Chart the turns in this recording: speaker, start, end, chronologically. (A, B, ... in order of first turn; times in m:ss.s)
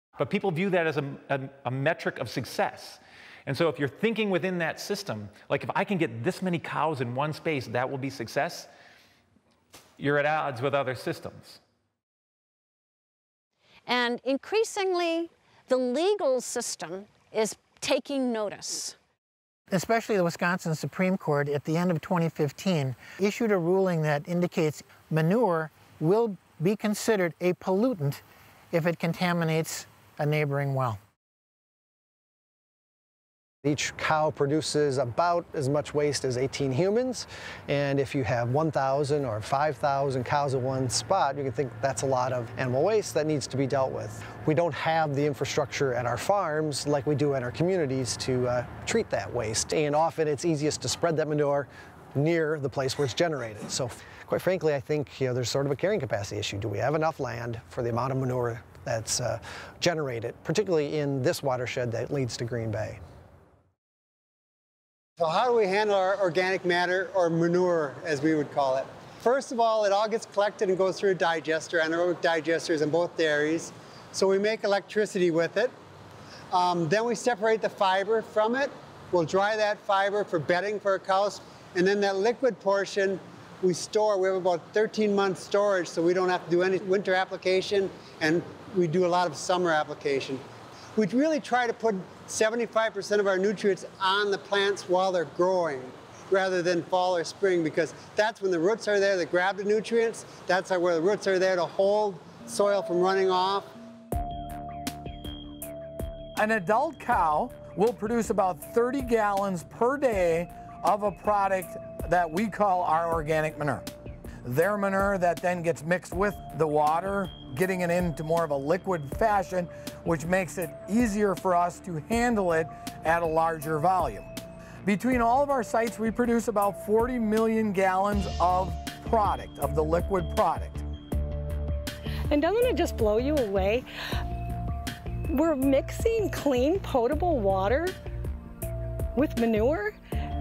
0:00.2-0:08.7 A
0:10.0-0:11.6 A
0:13.8-0:19.0 B
0:19.7-0:28.2 C
0:28.7-0:31.0 C
0:33.6-1:03.0 D
1:05.2-1:15.7 E
1:16.5-1:30.4 E
1:31.0-1:43.7 E
1:46.4-1:53.8 F
1:54.4-2:04.3 F
2:04.8-2:10.8 F
2:12.3-2:13.8 G
2:15.3-2:17.9 G
2:19.1-2:19.9 G